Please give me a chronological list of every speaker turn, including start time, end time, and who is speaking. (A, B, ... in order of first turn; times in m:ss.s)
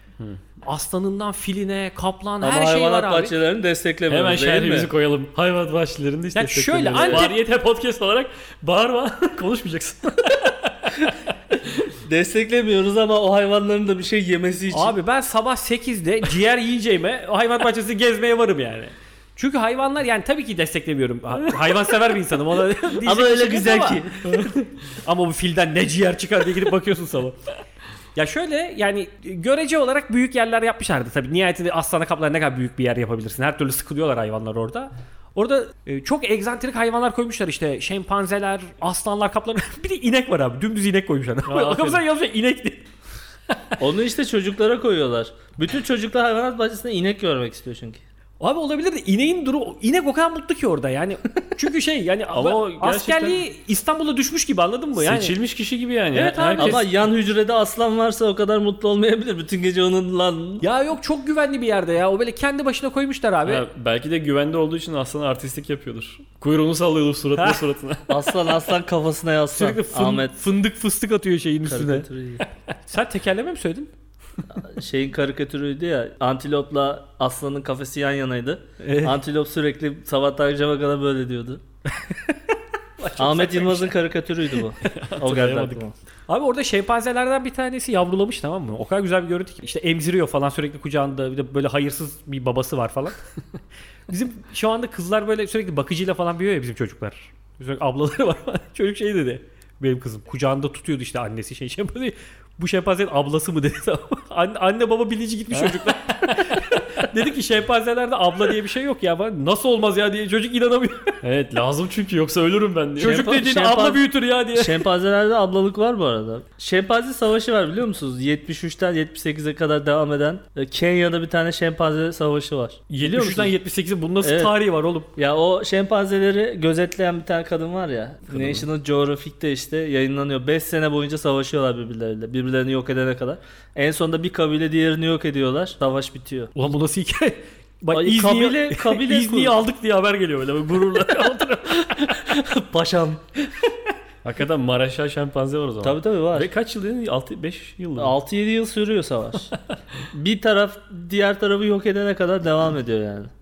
0:00.6-0:03.3 A
0:02.4-0:04.9 B
0:04.1-0:11.9 C
0:06.3-0:07.4 A
0:07.0-0:07.2 B
0:12.0-0:14.9 B
0:14.7-0:24.0 A
0:23.0-0:24.5 B
0:24.3-0:24.5 C
0:25.0-0:27.4 A
0:28.1-0:42.8 A
0:41.5-0:42.0 C
0:43.8-0:48.0 B
0:48.4-0:55.3 A
0:52.3-0:53.4 C
0:55.0-0:56.8 C
0:56.1-0:56.9 A
0:56.6-1:00.6 B
1:00.6-1:03.6 A
1:03.4-1:08.2 C
1:07.4-1:07.6 A
1:08.1-1:10.4 B
1:09.5-1:12.1 A
1:11.6-1:12.4 B
1:12.8-1:13.9 A
1:14.5-1:21.6 B
1:18.8-1:19.2 A
1:23.0-1:23.9 A
1:23.2-1:25.9 B
1:24.8-1:25.8 C
1:26.3-1:33.2 A
1:34.1-1:51.1 A
1:45.5-1:46.6 C
1:51.2-1:53.3 C
1:53.0-1:54.9 A
1:53.0-2:03.5 B
2:02.9-2:05.1 A
2:04.2-2:04.5 B
2:05.1-2:16.5 B
2:08.3-2:08.6 C
2:16.5-2:22.0 A
2:17.9-2:19.5 B
2:21.7-2:23.2 B
2:24.2-2:28.1 C
2:25.8-2:26.5 B
2:28.0-2:29.5 B
2:30.1-2:33.3 B